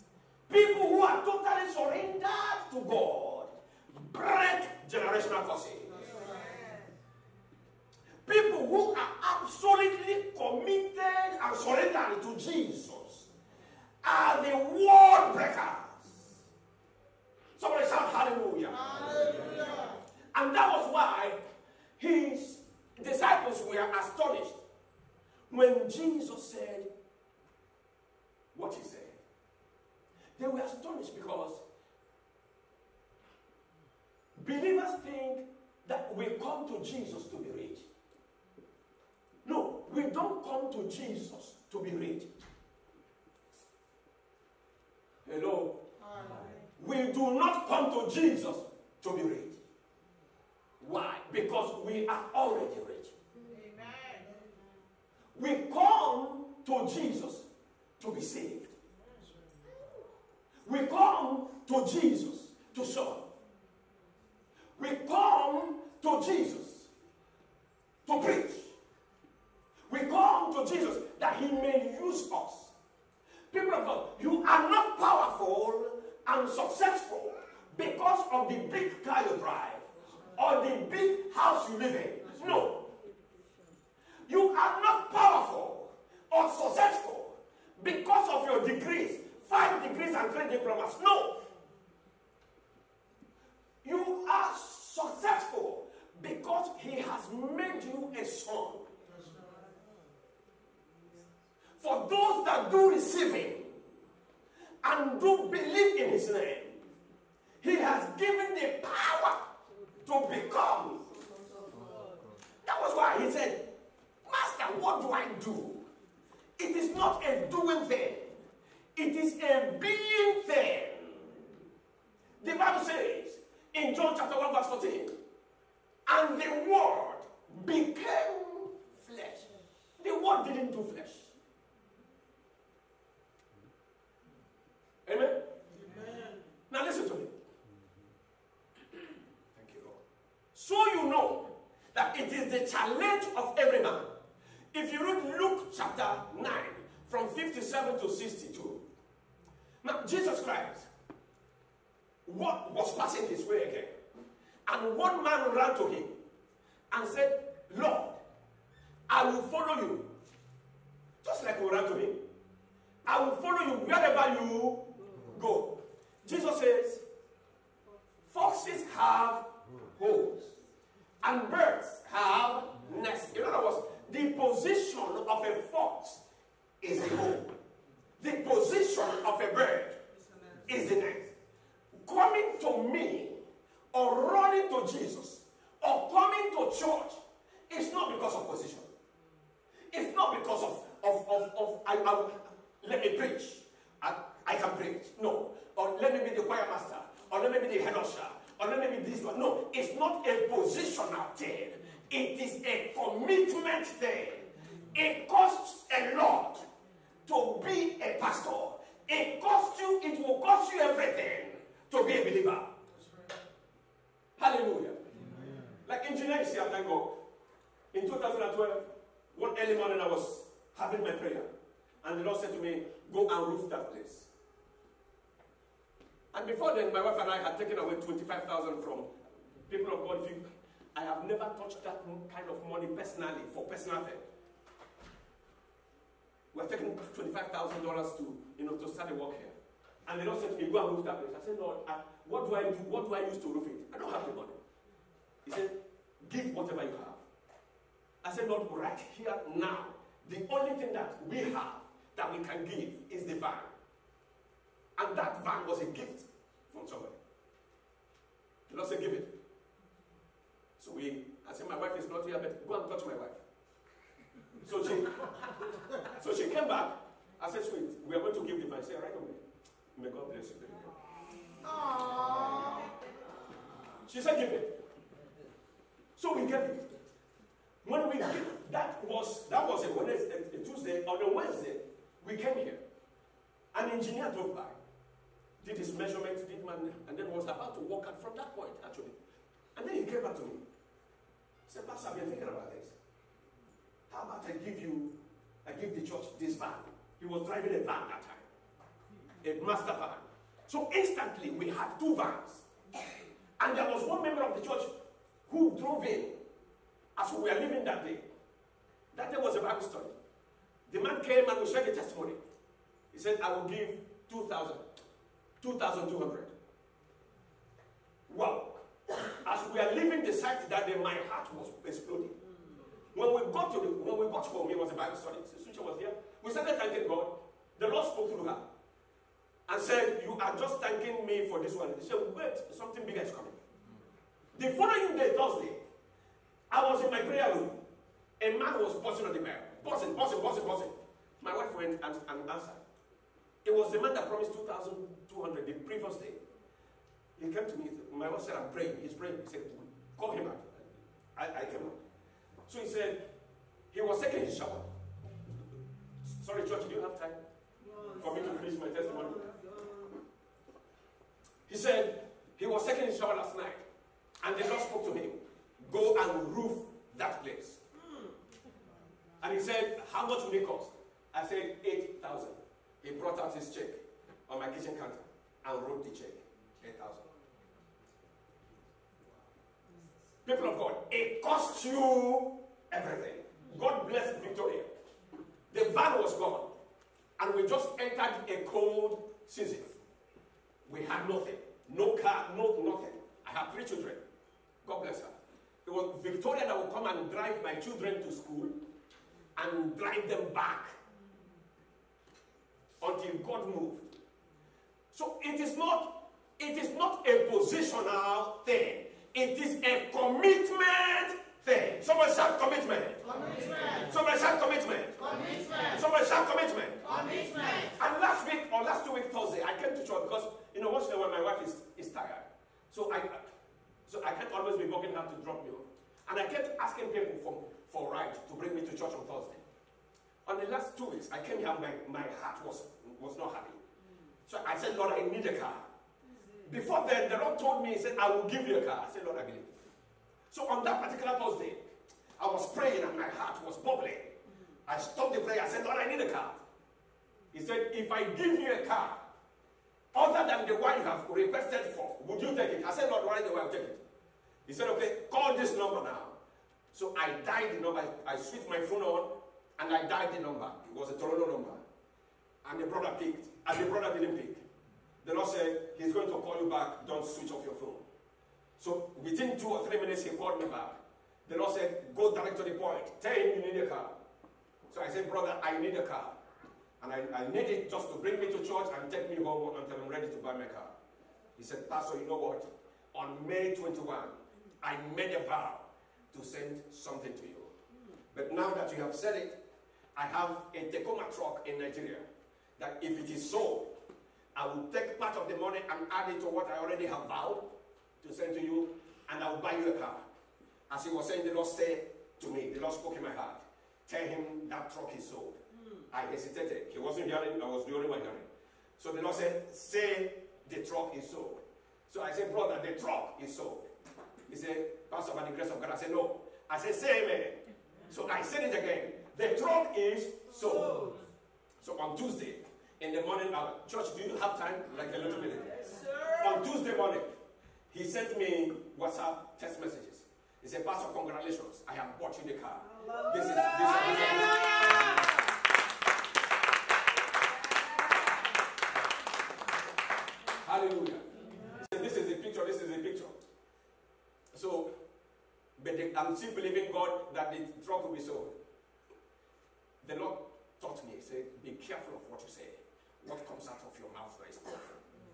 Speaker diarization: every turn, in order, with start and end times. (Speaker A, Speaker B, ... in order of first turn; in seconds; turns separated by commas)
Speaker A: 0.5-6.0, Speaker B: 5.9-6.9, Speaker A: 8.2-13.3, Speaker A: 14.0-16.4, Speaker A: 17.6-18.9, Speaker B: 18.7-20.0, Speaker A: 20.3-21.4, Speaker A: 22.0-24.6, Speaker A: 25.5-26.9, Speaker A: 28.5-29.2, Speaker A: 30.4-31.6, Speaker A: 34.4-37.9, Speaker A: 39.5-42.3, Speaker A: 45.2-45.8, Speaker B: 46.0-46.7, Speaker A: 46.8-49.6, Speaker A: 50.8-53.1, Speaker B: 53.3-54.5, Speaker A: 55.4-57.5, Speaker A: 58.0-58.7, Speaker A: 60.6-63.3, Speaker A: 64.8-66.9, Speaker A: 68.1-68.8, Speaker A: 69.9-72.7, Speaker A: 73.5-82.9, Speaker A: 84.3-91.4, Speaker A: 93.8-98.9, Speaker B: 99.0-99.8, Speaker A: 101.8-103.8, Speaker A: 104.8-106.8, Speaker A: 107.6-109.5, Speaker A: 110.0-111.1, Speaker A: 112.7-113.7, Speaker A: 114.2-115.9, Speaker A: 116.6-118.4, Speaker A: 119.0-121.5, Speaker A: 122.4-125.2, Speaker A: 126.1-131.3, Speaker A: 135.1-135.4, Speaker B: 135.7-136.4, Speaker A: 136.7-137.3, Speaker A: 139.5-140.0, Speaker A: 140.6-144.1, Speaker A: 144.7-148.8, Speaker A: 149.8-150.9, Speaker A: 152.3-154.0, Speaker A: 154.7-156.2, Speaker A: 156.9-158.2, Speaker A: 159.1-160.1, Speaker A: 161.2-162.2, Speaker A: 163.1-167.0, Speaker A: 168.3-170.6, Speaker A: 171.2-176.2, Speaker A: 176.8-177.5, Speaker A: 178.2-180.0, Speaker B: 180.1-180.7, Speaker A: 180.7-181.3, Speaker A: 182.0-188.9, Speaker A: 189.9-206.7, Speaker A: 207.3-212.8, Speaker B: 212.9-213.4, Speaker A: 214.4-215.1, Speaker A: 215.9-217.1, Speaker A: 217.9-221.5, Speaker A: 222.0-224.3, Speaker A: 226.3-234.2, Speaker A: 236.5-239.6, Speaker A: 240.1-244.6, Speaker A: 245.4-247.2, Speaker A: 248.2-253.7, Speaker A: 255.0-257.2, Speaker A: 258.7-259.4, Speaker A: 260.8-263.4, Speaker A: 264.6-265.4, Speaker A: 266.0-269.4, Speaker A: 270.0-270.9, Speaker B: 271.6-272.9, Speaker A: 274.1-274.8, Speaker A: 276.2-276.9, Speaker A: 277.8-282.8, Speaker A: 283.7-284.8, Speaker A: 285.6-289.2, Speaker A: 289.8-290.6, Speaker A: 291.7-293.0, Speaker A: 294.1-295.1, Speaker A: 295.6-298.5, Speaker A: 299.4-302.7, Speaker A: 303.6-304.9, Speaker A: 305.5-306.4, Speaker A: 307.2-308.3, Speaker A: 309.1-310.1, Speaker A: 310.9-312.4, Speaker A: 313.1-314.8, Speaker A: 315.6-316.5, Speaker A: 318.3-322.4, Speaker A: 323.1-328.6, Speaker A: 329.7-333.6, Speaker A: 334.5-335.8, Speaker A: 336.7-337.8, Speaker A: 338.4-342.8, Speaker A: 343.6-346.4, Speaker A: 347.4-352.0, Speaker A: 352.7-353.2, Speaker A: 353.9-354.9, Speaker A: 356.3-357.4, Speaker A: 358.2-359.4, Speaker A: 361.7-363.9, Speaker A: 364.4-367.8, Speaker A: 369.4-377.2, Speaker A: 380.4-384.9, Speaker A: 385.7-386.7, Speaker A: 387.4-390.0, Speaker A: 390.9-394.2, Speaker A: 394.8-395.3, Speaker A: 395.9-398.8, Speaker A: 399.6-401.0, Speaker A: 403.0-404.1, Speaker A: 405.1-413.3, Speaker B: 413.2-414.1, Speaker A: 414.0-415.2, Speaker B: 415.2-416.0, Speaker A: 415.9-417.0, Speaker B: 417.0-417.9, Speaker A: 418.0-423.5, Speaker A: 424.1-429.6, Speaker A: 430.5-433.8, Speaker A: 434.5-435.9, Speaker A: 436.6-439.8, Speaker A: 440.5-441.9, Speaker A: 442.4-446.6, Speaker A: 447.5-449.2, Speaker A: 450.1-454.0, Speaker A: 454.7-456.4, Speaker A: 456.9-461.8, Speaker A: 462.6-464.6, Speaker A: 465.2-468.1, Speaker A: 468.8-474.2, Speaker A: 474.9-476.4, Speaker A: 477.0-480.9, Speaker A: 481.6-487.7, Speaker A: 488.3-489.6, Speaker A: 490.1-492.3, Speaker A: 492.8-493.9, Speaker A: 494.6-497.7, Speaker A: 498.2-500.3, Speaker A: 500.9-513.9, Speaker A: 514.5-521.1, Speaker A: 521.8-527.3, Speaker A: 527.9-535.2, Speaker A: 540.6-543.4, Speaker A: 544.5-544.9, Speaker A: 545.8-548.6, Speaker A: 550.0-555.0